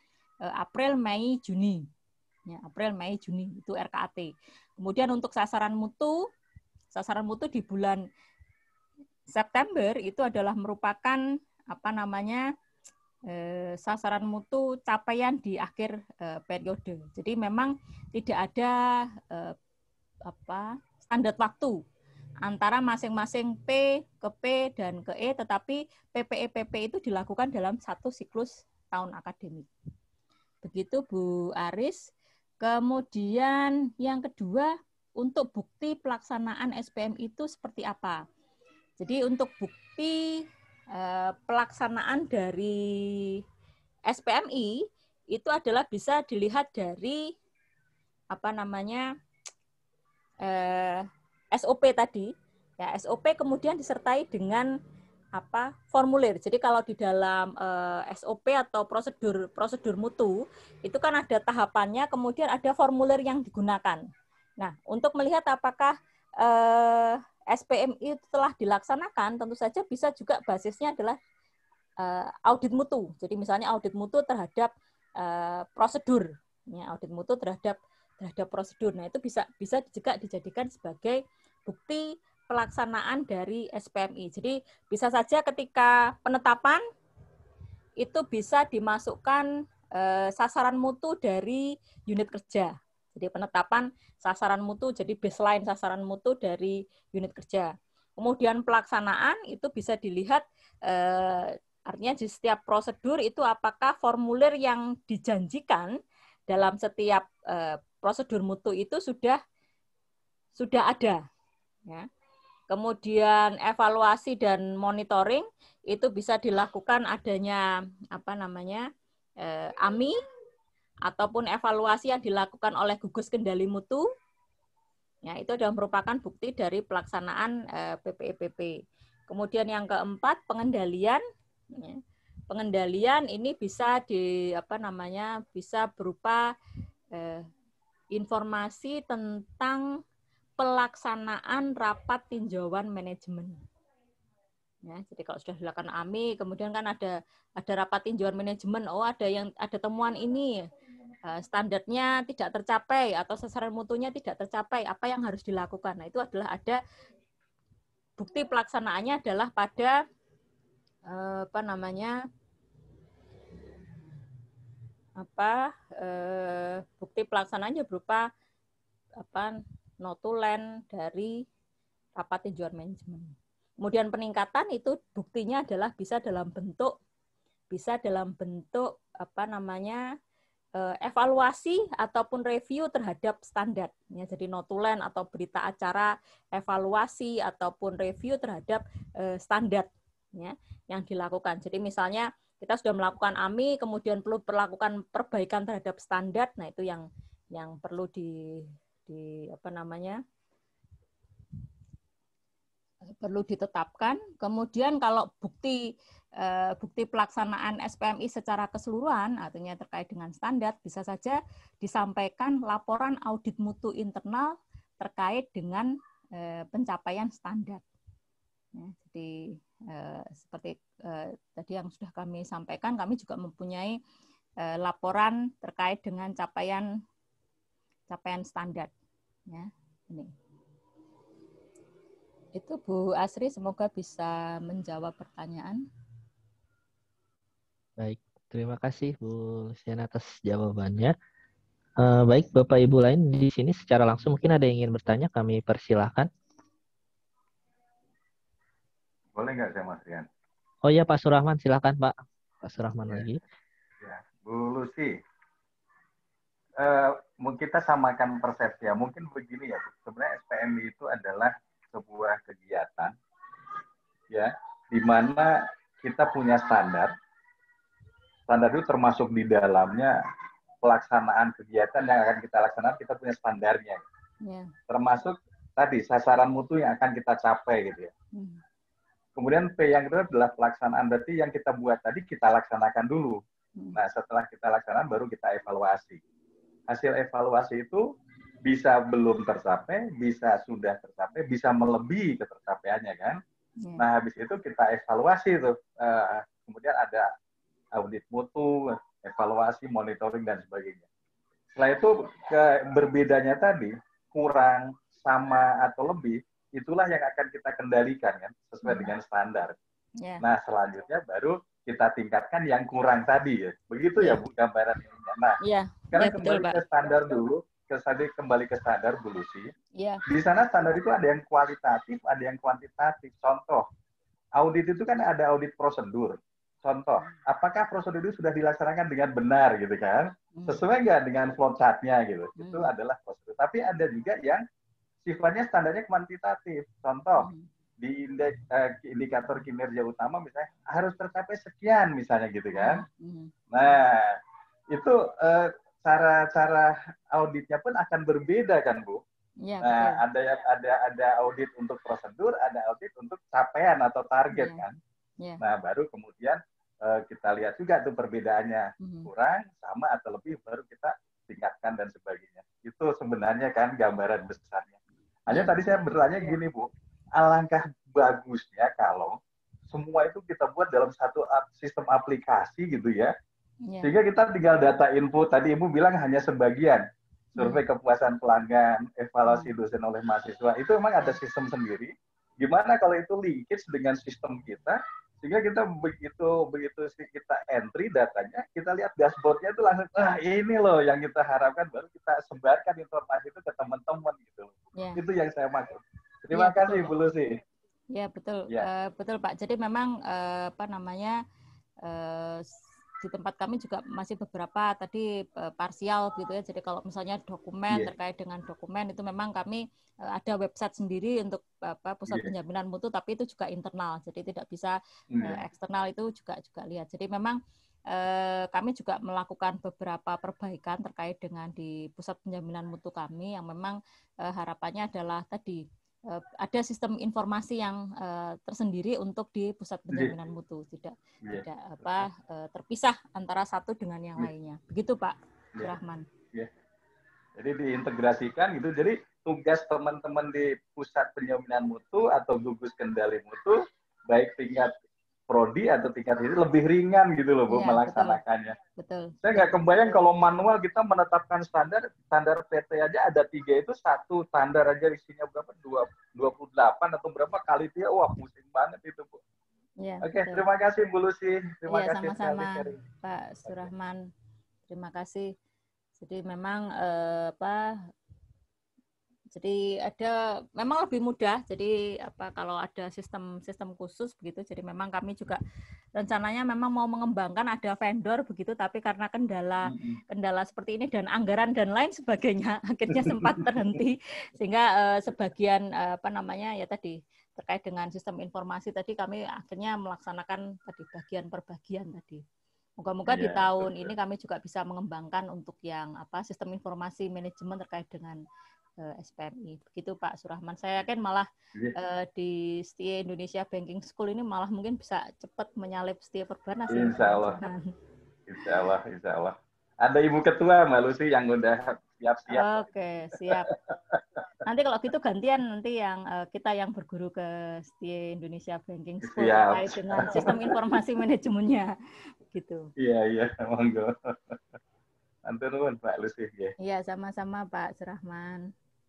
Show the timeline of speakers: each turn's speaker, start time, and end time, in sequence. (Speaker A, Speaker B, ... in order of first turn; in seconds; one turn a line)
Speaker A: 0.5-1.8
Speaker A: 2.5-6.2
Speaker A: 6.9-8.0
Speaker A: 9.3-12.4
Speaker A: 13.3-19.6
Speaker A: 20.3-21.8
Speaker A: 22.4-29.7
Speaker A: 30.6-32.0
Speaker A: 32.6-38.2
Speaker A: 39.0-40.2
Speaker A: 40.9-42.8
Speaker A: 44.1-44.7
Speaker A: 45.3-47.2
Speaker A: 48.3-49.1
Speaker A: 50.4-54.7
Speaker A: 55.4-64.0
Speaker A: 64.6-71.2
Speaker A: 72.0-86.8
Speaker A: 88.0-105.9
Speaker A: 106.5-109.4
Speaker A: 110.6-111.2
Speaker A: 112.7-117.6
Speaker A: 118.1-118.8
Speaker A: 119.4-120.2
Speaker A: 121.1-124.0
Speaker A: 125.3-128.7
Speaker A: 129.3-131.2
Speaker A: 131.7-132.0
Speaker A: 132.5-136.4
Speaker A: 137.1-137.5
Speaker A: 138.1-139.8
Speaker A: 140.6-143.6
Speaker A: 144.8-150.6
Speaker A: 151.3-156.8
Speaker A: 158.2-160.0
Speaker A: 161.1-162.1
Speaker A: 165.2-168.3
Speaker A: 169.2-171.4
Speaker A: 172.2-176.9
Speaker A: 177.7-180.0
Speaker A: 180.8-200.2
Speaker A: 203.2-205.8
Speaker A: 206.4-217.8
Speaker A: 218.7-219.3
Speaker A: 219.9-223.9
Speaker A: 224.6-226.8
Speaker A: 228.1-228.9
Speaker A: 229.5-230.3
Speaker A: 232.6-235.8
Speaker B: 238.0-241.1
Speaker B: 242.0-246.3
Speaker C: 249.3-250.3
Speaker B: 250.8-253.4
Speaker C: 254.0-255.1
Speaker C: 256.8-263.1
Speaker C: 264.3-267.1
Speaker C: 268.5-270.1
Speaker C: 270.8-274.0
Speaker A: 274.4-274.7
Speaker C: 274.9-278.1
Speaker A: 278.3-278.6
Speaker C: 279.4-283.4
Speaker C: 283.9-286.2
Speaker C: 286.9-288.0
Speaker C: 288.6-293.4
Speaker C: 294.0-297.3
Speaker C: 297.9-301.1
Speaker C: 301.7-309.7
Speaker A: 308.8-309.1
Speaker C: 310.4-315.6
Speaker A: 314.2-314.4
Speaker A: 315.6-316.8
Speaker C: 316.1-319.7
Speaker C: 320.3-323.9
Speaker C: 324.6-334.6
Speaker A: 330.6-330.8
Speaker A: 332.6-332.9
Speaker C: 335.2-337.5
Speaker A: 337.4-337.7
Speaker C: 338.0-343.0
Speaker A: 342.8-343.5
Speaker C: 343.7-344.3
Speaker C: 344.9-349.2
Speaker A: 349.6-350.2
Speaker C: 349.8-355.0
Speaker A: 354.5-354.8
Speaker C: 355.6-369.4
Speaker A: 359.0-359.3
Speaker C: 369.9-373.3
Speaker A: 373.9-374.1
Speaker C: 374.0-397.6
Speaker A: 379.5-379.7
Speaker A: 396.5-397.1
Speaker A: 398.1-401.4
Speaker A: 402.0-402.7
Speaker A: 403.2-417.6
Speaker C: 415.4-415.6
Speaker A: 418.1-436.3
Speaker C: 431.4-432.2
Speaker C: 437.6-443.8
Speaker C: 444.3-444.9
Speaker C: 445.5-448.8
Speaker A: 447.7-448.4
Speaker A: 449.0-450.2
Speaker C: 449.4-459.4
Speaker A: 460.0-460.6
Speaker C: 460.2-463.0
Speaker A: 461.9-464.3
Speaker A: 464.9-465.5
Speaker A: 466.2-468.1
Speaker A: 469.5-475.6
Speaker A: 476.2-492.4
Speaker A: 493.0-498.4
Speaker C: 493.3-494.1
Speaker A: 499.0-507.9
Speaker C: 506.9-507.6
Speaker C: 508.5-512.9
Speaker A: 512.5-513.7
Speaker C: 513.5-514.2
Speaker A: 514.6-521.9
Speaker C: 519.3-520.8
Speaker A: 522.5-522.9
Speaker C: 523.0-524.6
Speaker C: 525.5-526.7
Speaker A: 526.8-528.7